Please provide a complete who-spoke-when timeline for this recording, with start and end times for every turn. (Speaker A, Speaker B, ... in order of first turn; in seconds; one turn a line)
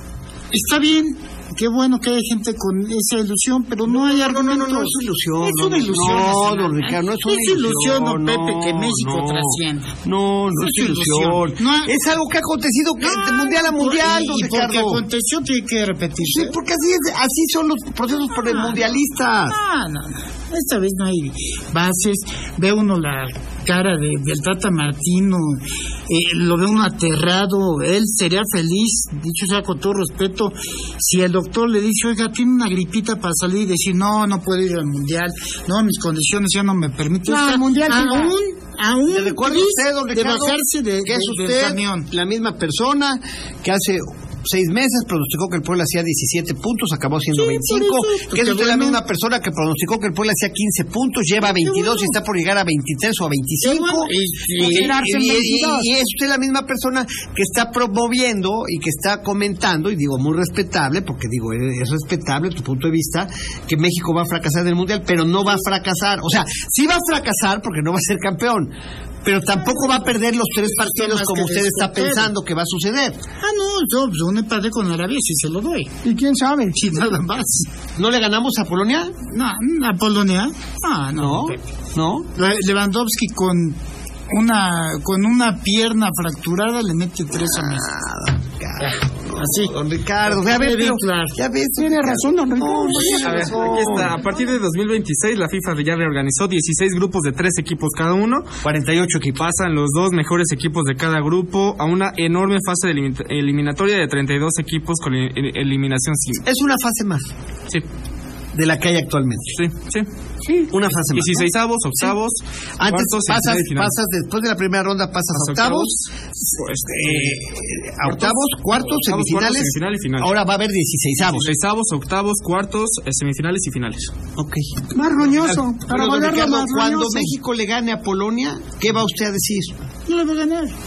Speaker A: 0.5-9.9
Speaker B: 3.9-15.0
Speaker A: 10.6-11.9
Speaker A: 13.0-16.6
Speaker B: 16.2-19.6
Speaker A: 18.4-18.8
Speaker A: 19.5-42.1
Speaker C: 37.3-38.4
Speaker B: 39.1-68.7
Speaker A: 47.3-49.0
Speaker A: 51.4-52.2
Speaker A: 53.6-55.0
Speaker C: 54.6-55.9
Speaker B: 69.2-73.2
Speaker A: 70.8-72.3
Speaker A: 73.4-75.9
Speaker C: 76.0-76.8
Speaker A: 76.7-77.7
Speaker B: 78.0-79.1
Speaker A: 79.3-81.6
Speaker B: 81.2-82.3
Speaker A: 82.3-83.8
Speaker A: 84.3-87.9
Speaker B: 87.4-94.2
Speaker A: 88.8-89.8
Speaker A: 90.3-91.4
Speaker C: 91.8-93.5
Speaker D: 93.2-98.5
Speaker B: 98.6-99.5
Speaker D: 99.4-106.4
Speaker B: 106.4-107.3
Speaker B: 108.5-109.6
Speaker D: 109.5-114.0
Speaker B: 110.7-112.2
Speaker B: 112.8-115.9
Speaker D: 115.3-117.4
Speaker B: 116.9-121.5
Speaker D: 118.0-120.3
Speaker D: 121.3-124.1
Speaker B: 124.4-129.7
Speaker C: 124.9-127.3
Speaker A: 130.1-130.8